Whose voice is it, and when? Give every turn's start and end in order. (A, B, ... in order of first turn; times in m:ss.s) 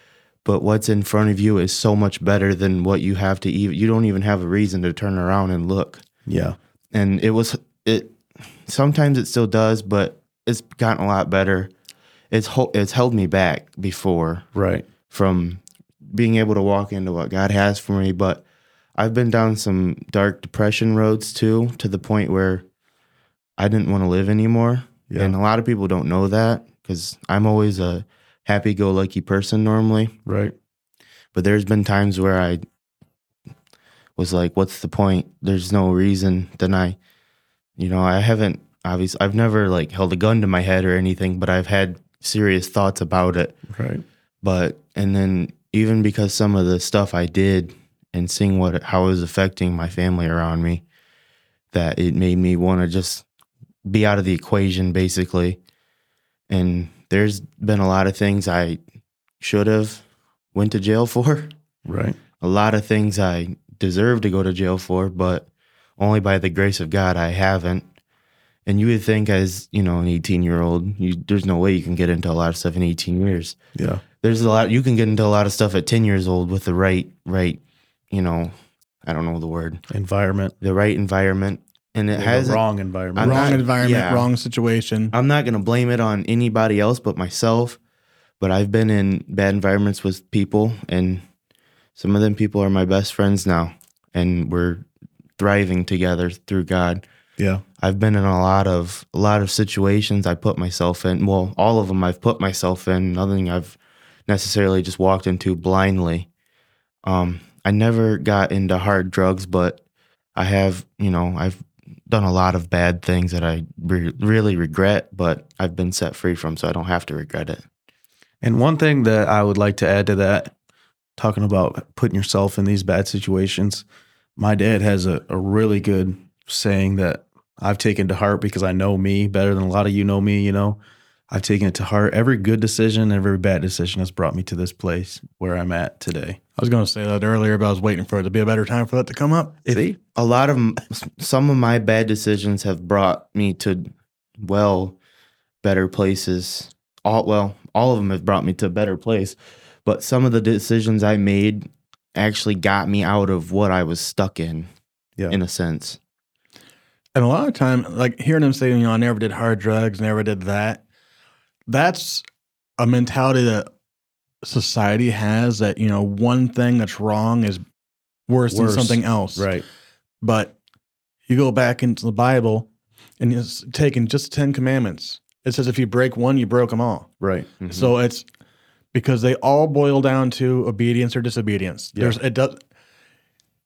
0:00.4-0:06.0 A
0:06.3-0:06.6 B
0:06.9-0:11.7 A
0:12.3-0:14.5 A
0:14.5-0:14.8 B
0:15.1-0:18.4 A
0:19.0-0:22.7 A
0:23.6-0:30.2 A
0:25.1-0:25.4 B
0:30.3-0:30.5 B
0:31.3-0:32.6 A
0:34.2-0:37.0 A
0:37.8-0:43.6 A
0:43.7-0:44.0 B
0:44.4-0:50.8 A
0:51.7-0:53.3 A
0:53.8-0:55.6 A
0:56.5-0:58.8 A
0:59.4-1:01.5 A
1:01.9-1:02.2 B
1:02.4-1:07.8 A
1:08.7-1:13.6 A
1:13.8-1:14.0 B
1:14.2-1:17.6 A
1:18.1-1:19.8 A
1:19.9-1:20.5 B
1:20.6-1:22.6 A
1:22.1-1:23.6 B
1:23.2-1:24.3 A
1:23.2-1:25.1 C
1:25.1-1:27.8 A
1:28.4-1:31.2 A
1:32.0-1:34.9 A
1:35.4-1:37.1 A
1:37.8-1:46.3 A
1:47.0-1:49.8 A
1:50.4-1:57.6 A
1:58.4-2:00.5 B
2:01.2-2:03.8 B
2:04.4-2:10.8 B
2:11.3-2:16.4 B
2:16.6-2:19.6 C
2:19.6-2:20.0 B
2:20.2-2:25.0 A
2:25.6-2:34.7 A
2:35.3-2:36.0 A
2:37.2-2:40.8 C
2:41.7-2:42.2 C
2:42.8-2:43.7 C
2:44.4-2:47.6 C
2:48.3-2:49.5 C
2:48.5-2:49.6 B
2:50.2-2:50.6 C
2:51.3-2:52.7 C
2:53.2-2:57.1 C
2:57.2-2:57.5 B
2:57.6-2:57.9 A
2:57.6-2:58.2 C
2:58.9-3:02.6 C